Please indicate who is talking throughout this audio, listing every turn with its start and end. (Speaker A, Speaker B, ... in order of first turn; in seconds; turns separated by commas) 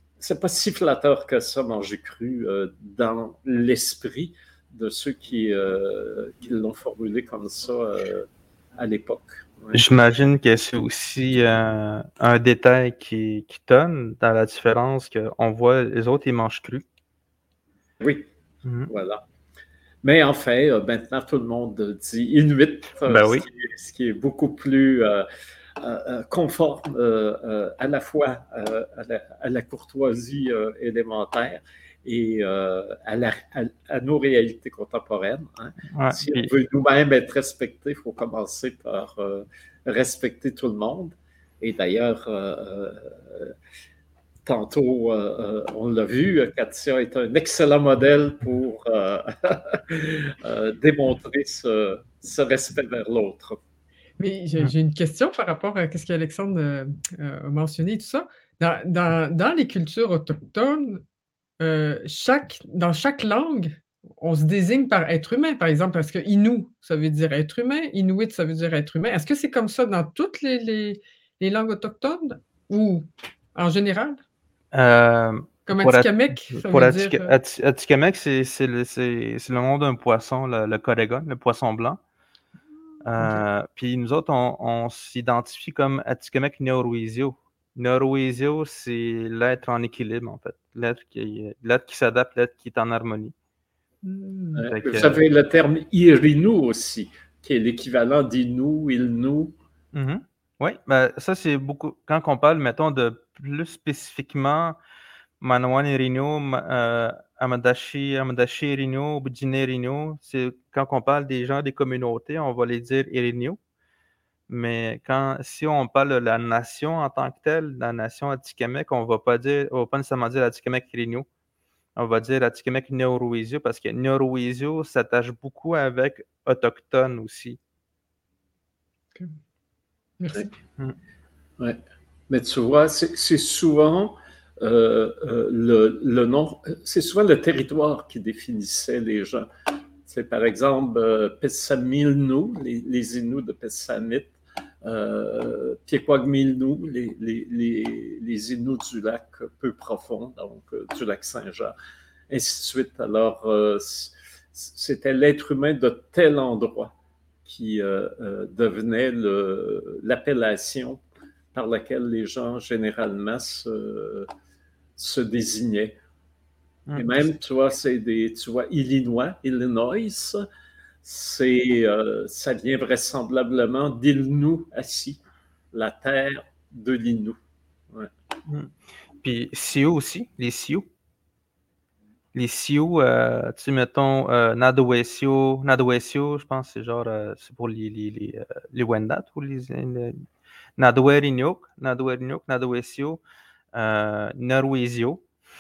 Speaker A: 0.2-9.8, Speaker B: 9.7-16.9, Speaker A: 18.0-18.3, Speaker B: 18.6-18.9, Speaker A: 18.9-19.2, Speaker A: 20.0-25.2, Speaker B: 23.1-23.5, Speaker A: 25.8-43.5, Speaker B: 35.9-36.5, Speaker A: 44.5-53.6, Speaker C: 54.2-61.0, Speaker C: 61.6-74.2, Speaker B: 74.7-82.0, Speaker C: 75.7-77.4, Speaker B: 83.0-93.3, Speaker C: 94.0-94.7, Speaker A: 94.6-99.6, Speaker B: 94.7-95.2, Speaker B: 99.9-104.8, Speaker B: 105.4-113.6, Speaker B: 114.5-121.3, Speaker B: 122.0-127.6, Speaker C: 130.2-130.5, Speaker A: 131.6-139.5, Speaker A: 140.1-151.8, Speaker A: 152.3-156.9, Speaker A: 157.4-164.3, Speaker A: 165.0-166.0, Speaker B: 166.9-167.2, Speaker A: 166.9-170.4, Speaker A: 171.0-175.2, Speaker A: 175.7-177.4, Speaker B: 178.5-180.9, Speaker B: 182.3-190.2, Speaker B: 190.8-193.2, Speaker B: 193.7-195.2